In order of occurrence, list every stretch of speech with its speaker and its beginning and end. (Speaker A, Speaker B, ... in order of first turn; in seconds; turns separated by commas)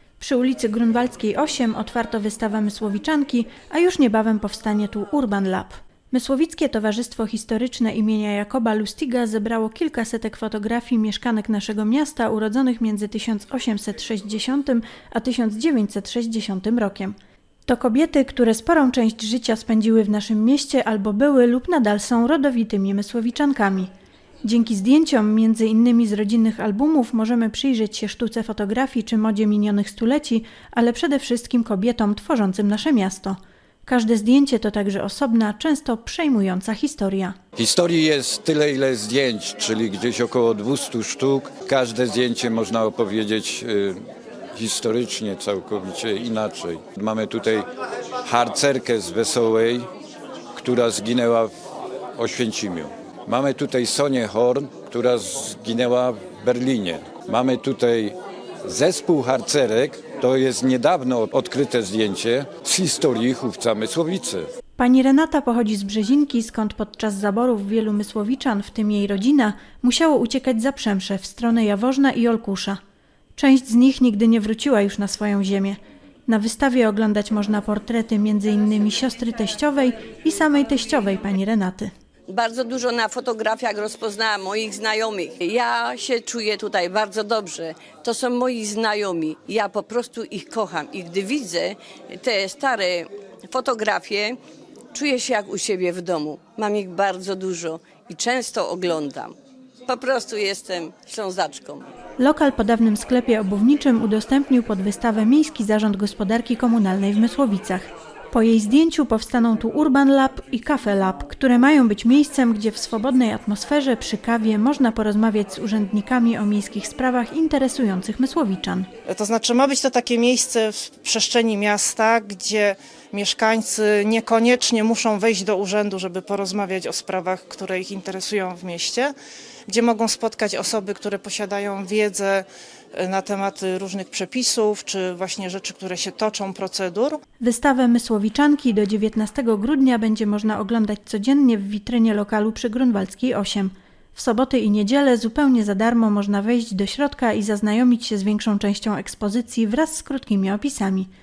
Speaker A: 0.2-23.9, Speaker A: 24.4-37.4, Speaker B: 37.5-44.0, Speaker B: 44.5-47.7, Speaker B: 48.2-49.9, Speaker B: 50.5-51.5, Speaker B: 52.2-64.5, Speaker A: 64.8-72.8, Speaker A: 73.3-81.9, Speaker C: 82.3-94.4, Speaker C: 94.9-99.3, Speaker C: 99.8-101.9, Speaker A: 102.2-118.9, Speaker D: 119.1-129.1, Speaker D: 129.7-137.2, Speaker A: 137.4-151.1